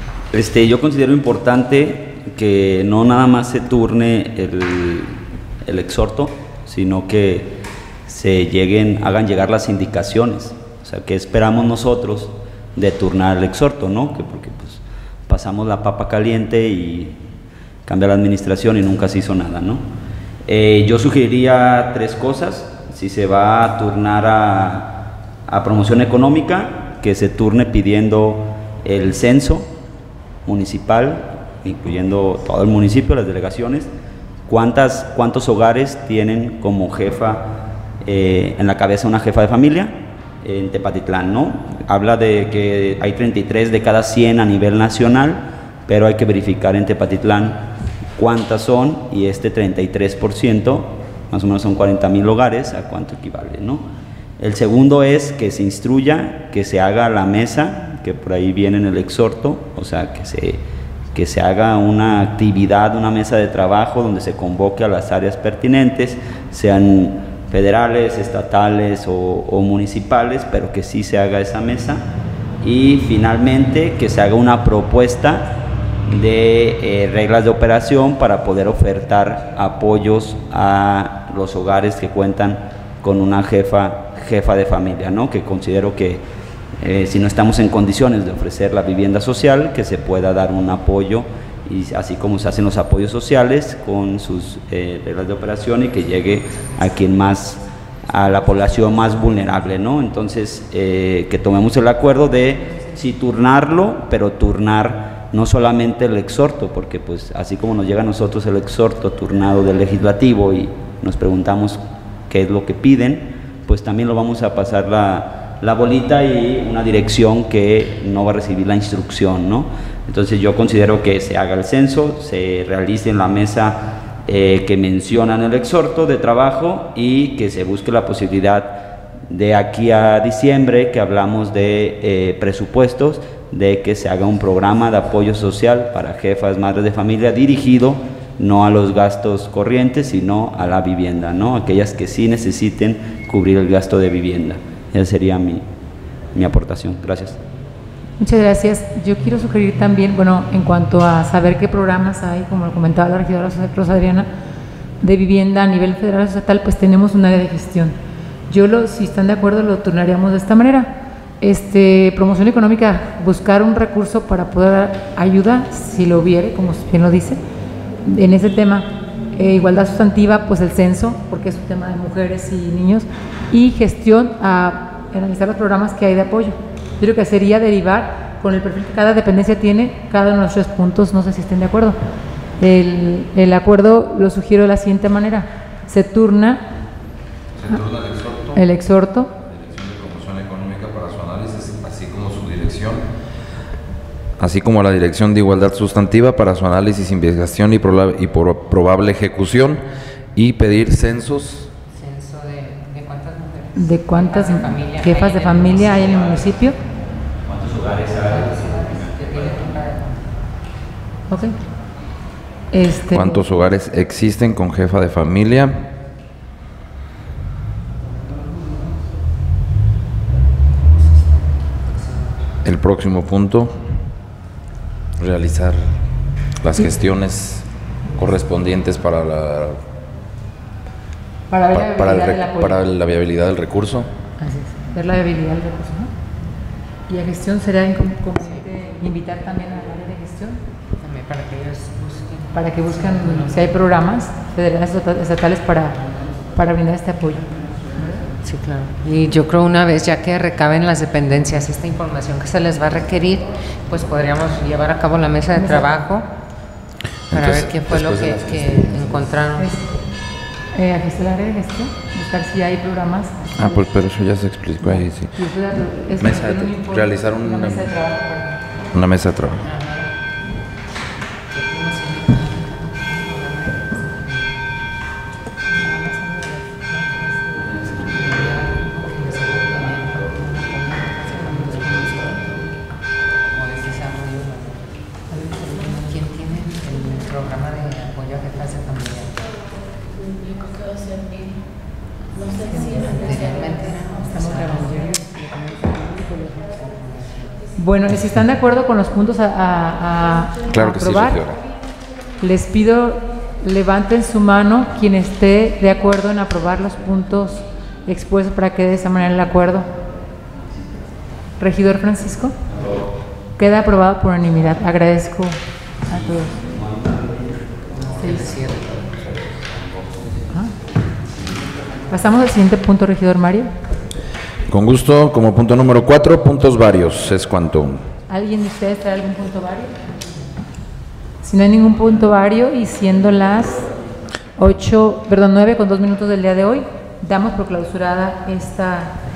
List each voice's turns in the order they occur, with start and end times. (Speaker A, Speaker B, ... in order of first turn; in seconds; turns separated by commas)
Speaker A: 0.3-7.5, Speaker A: 8.1-17.2, Speaker A: 17.9-19.8, Speaker A: 20.5-29.7, Speaker A: 30.4-33.9, Speaker A: 34.5-37.5, Speaker A: 38.0-53.9, Speaker A: 54.4-72.0, Speaker A: 72.6-75.5, Speaker A: 76.1-86.2, Speaker A: 86.8-145.6, Speaker A: 146.3-147.4, Speaker B: 148.2-154.3, Speaker B: 155.0-157.9, Speaker B: 158.5-167.4, Speaker B: 168.0-182.0, Speaker B: 182.6-186.6, Speaker C: 187.5-188.7, Speaker B: 188.5-189.3, Speaker C: 189.4-193.1, Speaker C: 194.4-199.8, Speaker C: 200.3-201.7, Speaker D: 201.9-206.3, Speaker B: 203.8-206.8, Speaker A: 207.4-209.8, Speaker D: 208.1-210.2, Speaker B: 211.3-211.5, Speaker B: 212.7-213.4, Speaker C: 213.1-215.8, Speaker D: 220.9-222.3, Speaker C: 222.6-223.8, Speaker C: 225.2-225.9, Speaker C: 226.6-229.8, Speaker B: 231.5-232.8, Speaker C: 231.7-234.1, Speaker B: 234.4-236.1, Speaker B: 237.1-240.6, Speaker D: 241.0-243.8, Speaker B: 242.5-246.0, Speaker B: 246.5-248.2, Speaker D: 248.4-256.3, Speaker B: 255.5-255.8, Speaker C: 257.3-259.3, Speaker D: 257.3-259.7, Speaker B: 259.6-260.0, Speaker B: 260.7-263.8, Speaker C: 263.6-265.3, Speaker B: 264.8-268.6, Speaker C: 266.2-267.9, Speaker C: 268.9-269.6, Speaker D: 269.6-270.1, Speaker D: 271.5-274.6, Speaker B: 275.7-277.8, Speaker D: 277.9-282.7, Speaker D: 283.5-284.8, Speaker B: 285.3-285.9, Speaker D: 285.8-289.4, Speaker B: 292.6-293.2, Speaker D: 292.7-297.5, Speaker B: 294.2-295.4, Speaker B: 297.7-301.4, Speaker C: 300.7-301.6, Speaker B: 302.4-309.9, Speaker B: 311.6-312.6, Speaker A: 312.7-313.1, Speaker B: 313.6-316.6, Speaker A: 316.1-320.5, Speaker D: 317.9-318.9, Speaker B: 318.2-318.5, Speaker A: 321.1-321.6, Speaker B: 322.1-323.7, Speaker C: 324.7-328.0, Speaker B: 328.3-329.9, Speaker B: 331.4-333.9, Speaker B: 334.6-339.2